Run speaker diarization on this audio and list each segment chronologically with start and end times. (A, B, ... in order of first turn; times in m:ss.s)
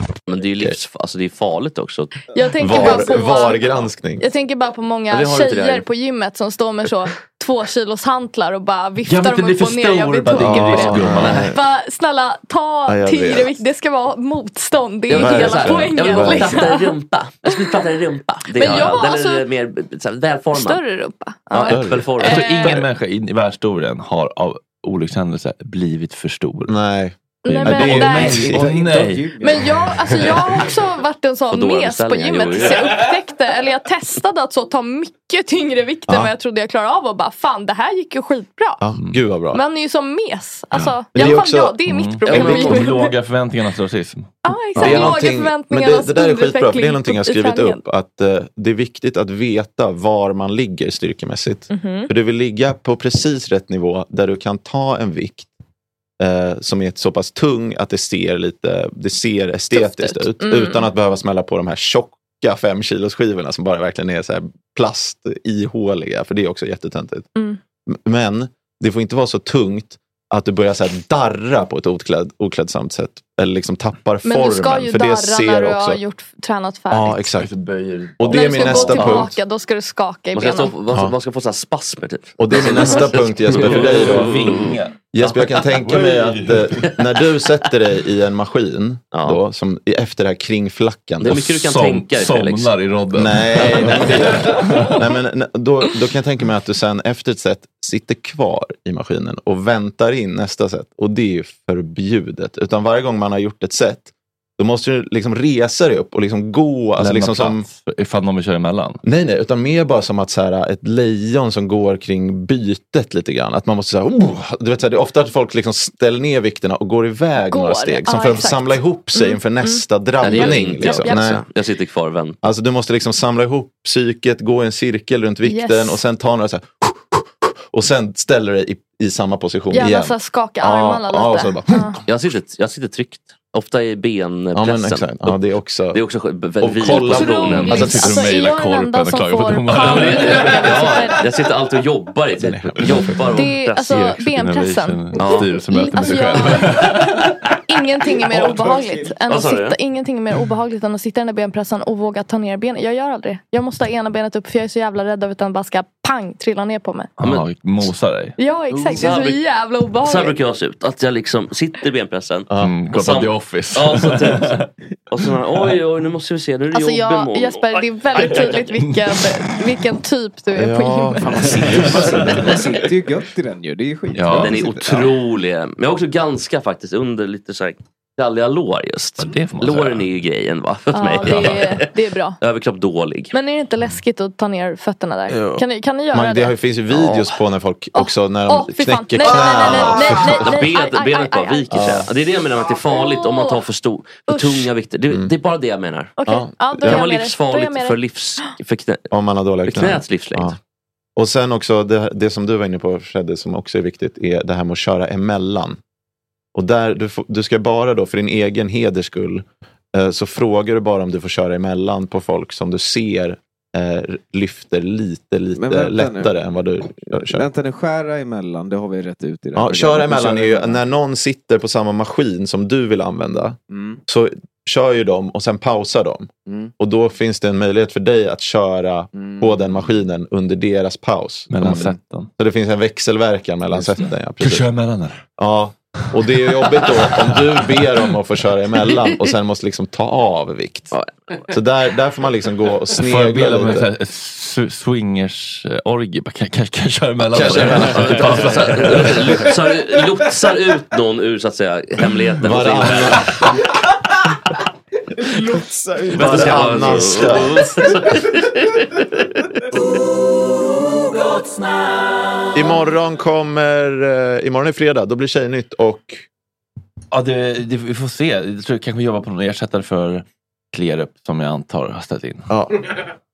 0:00.3-0:03.0 A
0:02.3-0:16.9 B
0:02.6-0:04.2 C
0:05.1-0:05.9 A
0:09.0-0:11.4 D
0:10.3-0:11.6 C
0:12.9-0:13.6 C
0:15.1-0:20.8 A
0:15.1-0:16.6 C
0:17.4-0:17.8 B
0:18.6-0:19.4 B
0:20.5-0:22.9 B
0:21.5-0:22.8 A
0:21.7-0:22.1 C
0:22.3-0:26.7 D
0:26.7-0:28.7 C
0:27.5-0:28.5 B
0:27.5-0:29.4 D
0:28.1-0:30.8 E
0:29.4-0:38.9 B
0:31.5-0:33.1 A
0:38.8-0:39.6 C
0:39.5-0:43.1 B
0:41.0-0:42.9 C
0:41.9-0:45.1 D
0:42.2-0:42.9 A
0:44.4-0:47.8 B
0:44.8-0:55.5 C
0:51.7-0:52.1 B
0:56.2-1:07.3 C
0:59.7-1:00.9 B
1:07.9-1:16.0 C
1:14.2-1:17.3 B
1:16.9-1:17.5 C
1:17.3-1:19.1 D
1:18.2-1:19.4 C
1:18.2-1:20.8 B
1:18.9-1:19.3 A
1:20.3-1:25.6 A
1:22.4-1:24.6 C
1:23.5-1:25.0 D
1:25.1-1:31.5 C
1:25.8-1:26.8 D
1:29.1-1:29.4 A
1:31.2-1:32.8 A
1:31.5-1:35.1 D
1:33.1-1:47.7 C
1:33.8-1:34.1 A
1:47.0-1:49.0 D
1:49.0-2:01.4 C
1:57.5-2:01.4 B
2:00.2-2:02.4 A
2:02.4-2:12.0 C
2:05.4-2:06.0 B
2:09.7-2:12.0 B
2:12.1-2:15.4 A
2:14.5-2:16.0 C
2:15.9-2:17.9 A
2:16.6-2:18.5 C
2:16.9-2:20.7 D
2:17.1-2:21.2 B
2:19.8-2:24.1 A
2:22.4-2:23.2 C
2:22.8-2:23.2 D
2:23.3-2:37.1 B
2:23.9-2:27.4 D
2:25.2-2:26.2 A
2:28.4-2:29.1 E
2:29.3-2:29.8 A
2:37.2-2:38.4 D
2:37.2-2:37.5 A
2:38.4-2:40.4 B
2:38.8-2:39.1 E
2:38.9-2:39.4 A
2:40.0-2:48.8 A
2:42.6-2:44.7 D
2:46.7-2:51.6 B
2:48.8-2:49.6 D
2:50.6-2:52.2 C
2:51.4-2:55.1 E
2:51.6-2:52.6 A
2:51.8-2:52.5 D
2:54.1-2:54.6 D
2:54.3-3:03.3 A
2:59.2-3:00.1 D
3:00.9-3:02.4 B
3:01.2-3:01.6 D
3:03.3-3:06.6 B
3:05.3-3:10.7 C
3:06.9-3:07.4 A
3:08.0-3:12.0 B
3:09.2-3:16.2 A
3:11.7-3:12.1 C
3:12.7-3:13.6 B
3:14.3-3:14.7 B
3:16.2-3:18.6 B
3:16.3-3:17.0 C
3:16.8-3:19.1 A
3:19.1-3:20.6 C
3:19.6-3:20.6 A
3:21.2-3:25.8 C
3:26.6-3:37.5 C
3:35.6-3:36.3 E
3:37.1-3:40.8 E
3:39.6-3:54.7 C
3:43.7-3:44.0 E
3:46.5-3:46.7 E
3:49.1-3:49.8 E
3:51.5-3:52.3 D
3:54.4-3:55.2 D
3:55.4-4:01.0 C
3:56.2-3:57.4 D
4:00.9-4:01.6 A
4:01.5-4:03.9 C
4:03.0-4:09.5 D
4:07.3-4:08.4 C
4:07.4-4:13.5 A
4:12.4-4:13.5 C
4:15.4-4:17.7 C
4:15.6-4:16.4 E
4:16.1-4:19.3 A
4:22.5-4:26.2 C
4:27.1-4:32.5 D
4:32.5-4:32.9 C